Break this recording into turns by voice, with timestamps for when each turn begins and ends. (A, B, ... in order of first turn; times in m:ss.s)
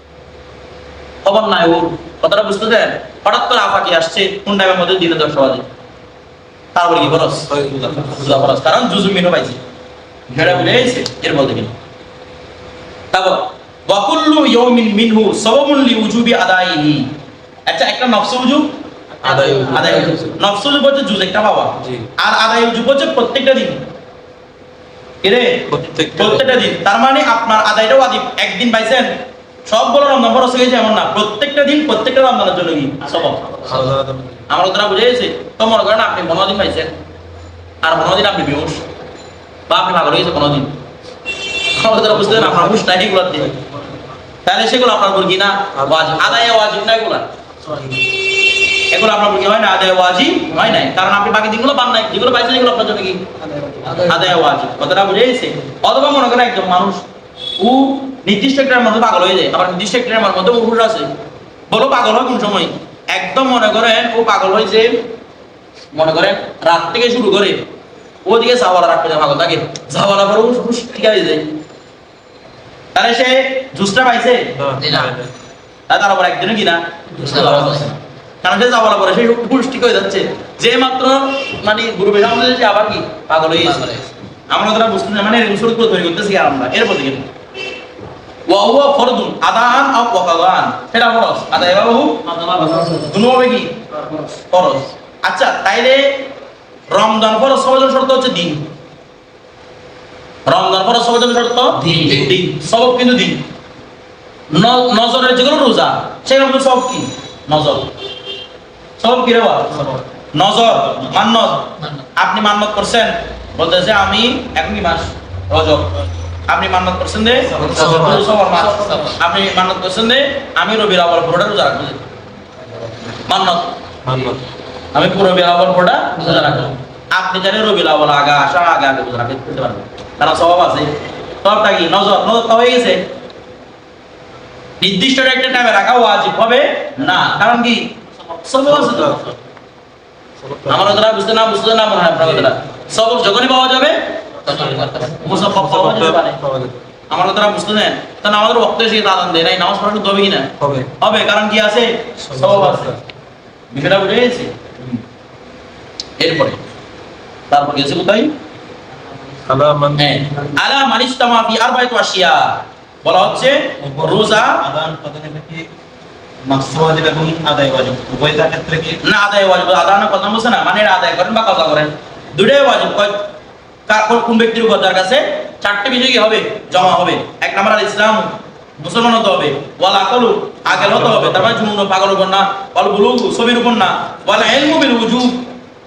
0:01.2-0:05.6 A
0:06.7-0:07.5 A
0:07.0-0:08.6 B
0:08.1-0:09.6 A
0:10.3-0:11.7 A
0:10.4-0:10.9 B
0:13.1-0:17.1 A
0:17.7-0:18.7 A
0:19.2-0:20.4 B
0:19.2-0:20.2 C
0:19.7-0:23.8 A
0:21.8-0:22.1 B
0:25.2-0:29.1 A
0:25.7-0:26.6 B
0:29.7-0:33.5 A
0:33.6-0:34.5 B
0:34.5-0:36.9 A
0:37.8-0:38.8 A
0:39.7-0:40.7 A
0:41.7-0:43.5 A
0:42.1-0:43.6 B
0:44.4-0:47.3 A
0:45.7-0:46.5 B
0:48.7-0:53.2 A
0:53.4-0:54.1 D
0:53.8-0:54.2 C
0:54.0-0:57.0 A
0:57.6-1:01.1 A
1:01.7-1:05.0 A
1:05.9-1:07.6 A
1:08.2-1:11.5 A
1:12.9-1:14.5 A
1:14.5-1:15.3 B
1:14.8-1:15.2 C
1:15.9-1:23.9 A
1:17.1-1:17.9 C
1:17.2-1:17.9 B
1:23.6-1:24.1 C
1:24.5-1:27.3 A
1:28.5-1:32.2 A
1:32.3-1:33.1 C
1:32.9-1:33.8 A
1:34.3-1:36.3 A
1:36.9-1:38.6 A
1:40.4-1:43.4 A
1:41.8-1:42.3 C
1:41.9-1:42.4 B
1:44.5-1:47.9 A
1:49.0-1:55.9 A
1:50.8-1:51.1 D
1:51.8-1:52.0 C
1:56.5-2:02.0 A
1:57.5-1:57.8 D
1:57.5-1:58.3 B
1:58.0-1:59.1 C
2:03.2-2:03.7 A
2:04.0-2:04.4 B
2:04.9-2:10.9 A
2:06.2-2:06.7 C
2:11.4-2:13.0 A
2:14.8-2:19.3 A
2:18.6-2:19.2 B
2:20.4-2:21.0 B
2:20.7-2:24.6 A
2:22.2-2:22.5 B
2:24.4-2:25.5 C
2:25.2-2:26.4 A
2:25.4-2:26.8 B
2:27.1-2:33.0 A
2:30.6-2:30.9 B
2:32.2-2:33.0 B
2:33.7-2:35.0 A
2:36.2-2:36.6 A
2:37.5-2:38.3 A
2:39.4-2:40.3 B
2:40.0-2:44.6 A
2:43.8-2:45.7 D
2:46.4-2:49.0 D
2:49.0-2:53.3 A
2:53.9-3:05.4 A
3:00.7-3:01.6 B